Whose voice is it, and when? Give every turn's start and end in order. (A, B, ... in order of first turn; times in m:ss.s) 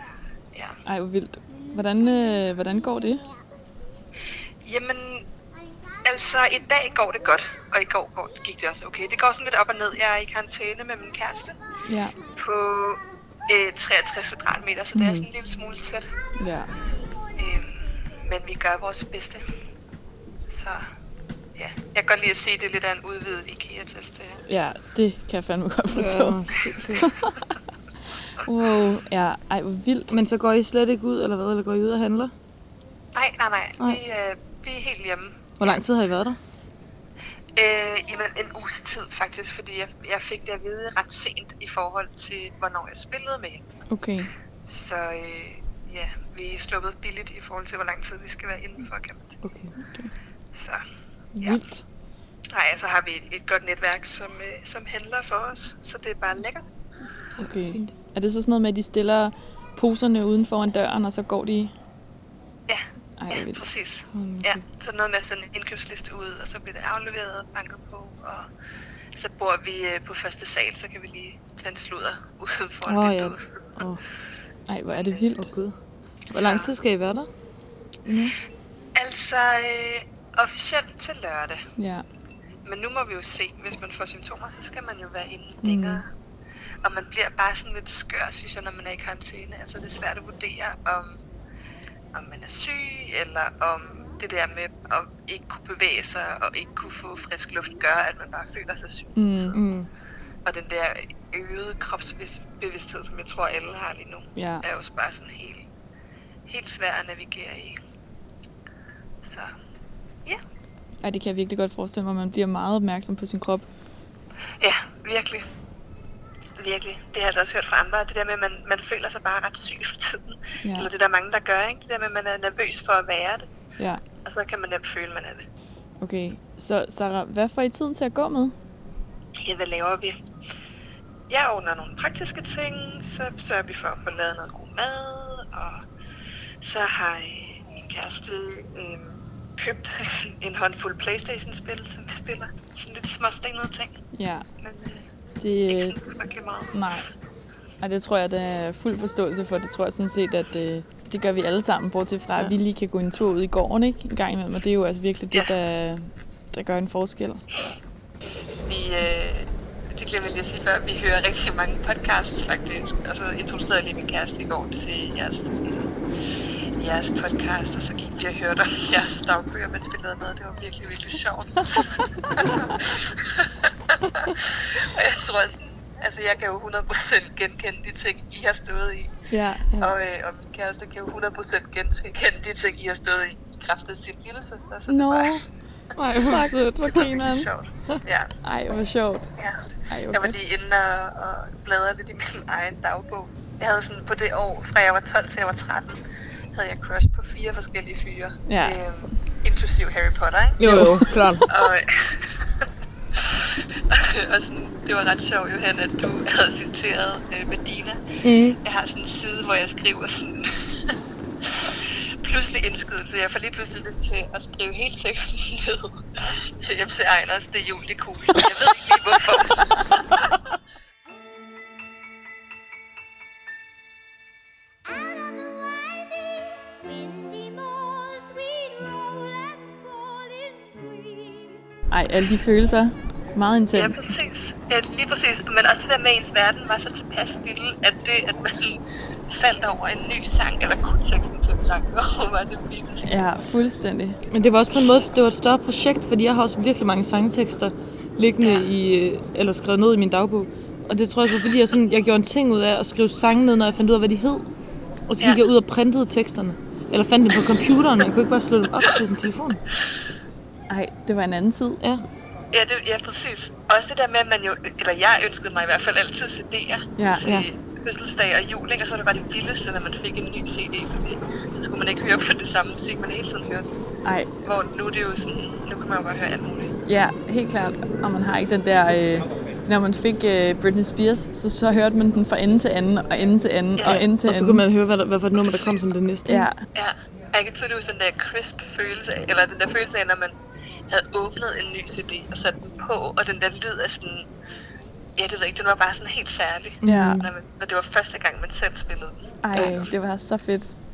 0:00.5-0:00.8 A
0:00.8-0:03.2 B
0:04.6-0:05.3 A
0:06.0-0:11.6 A
0:11.8-0:12.2 B
0:12.4-0:16.1 A
0:15.0-0:15.3 B
0:16.4-0:16.7 B
0:17.4-0:19.4 A
0:20.5-0:20.8 A
0:21.6-0:24.4 A
0:24.5-0:27.4 B
0:25.9-0:27.1 C
0:28.4-0:30.1 B
0:30.1-0:32.3 C
0:33.1-0:35.8 A
0:35.6-0:36.4 C
0:37.6-0:43.6 A
0:43.9-0:44.3 B
0:44.6-0:49.4 A
0:49.4-0:49.7 C
0:49.8-0:50.1 B
0:50.5-0:50.8 A
0:51.4-0:51.8 B
0:52.5-0:56.6 A
0:57.4-0:57.9 C
0:57.4-1:01.7 B
1:02.7-1:08.5 A
1:03.2-1:03.7 B
1:04.1-1:04.6 C
1:09.1-1:13.9 A
1:12.9-1:14.0 C
1:14.7-1:15.5 B
1:15.4-1:15.8 C
1:16.3-1:17.3 C
1:16.3-1:16.7 A
1:18.1-1:18.4 B
1:19.0-1:21.6 A
1:21.8-1:22.0 B
1:22.6-1:26.1 A
1:25.6-1:26.0 B
1:26.8-1:31.2 A
1:32.1-1:39.6 A
1:39.2-1:39.5 B
1:39.5-1:39.9 C
1:40.4-1:45.7 A
1:44.4-1:44.6 B
1:46.5-1:47.8 A
1:49.2-1:49.5 A
1:51.0-1:53.7 B
1:54.6-1:55.5 A
1:56.6-2:03.5 A
2:00.6-2:00.9 B
2:04.2-2:05.4 A
2:06.0-2:08.6 B
2:09.4-2:10.2 A
2:11.3-2:15.8 A
2:16.6-2:24.0 A
2:24.1-2:24.5 B
2:24.6-2:25.1 A
2:25.4-2:26.0 B
2:25.7-2:26.8 A
2:26.7-2:27.1 B
2:27.8-2:37.4 B
2:38.7-2:45.9 A
2:46.8-2:59.1 A
2:59.3-2:59.7 B
2:59.8-3:05.4 A
3:04.9-3:05.4 B
3:06.0-3:06.6 C
3:06.1-3:07.5 B
3:06.8-3:08.3 A
3:08.4-3:09.3 B
3:09.4-3:16.0 A
3:09.9-3:10.4 B
3:16.5-3:40.3 A
3:18.5-3:18.8 B
3:20.6-3:21.5 C
3:28.2-3:28.6 C
3:44.8-3:51.6 D
3:51.9-3:54.0 B
3:53.7-4:03.2 A
4:03.0-4:04.2 B
4:04.3-4:14.5 C
4:08.4-4:08.7 A
4:15.1-4:19.6 C
4:20.7-4:21.8 B
4:21.8-4:22.1 C
4:22.5-4:33.7 A
4:27.0-4:27.4 B
4:34.0-4:34.3 B
4:34.4-4:36.8 A
4:36.8-4:44.6 B
4:43.8-4:44.0 A
4:43.8-4:46.5 C
4:46.3-4:46.6 B
4:46.7-4:50.4 A
4:50.9-4:54.3 A
4:55.2-4:59.8 A
4:56.8-4:57.3 C
4:56.8-4:57.2 B
4:59.4-5:00.7 B
4:59.5-4:59.9 C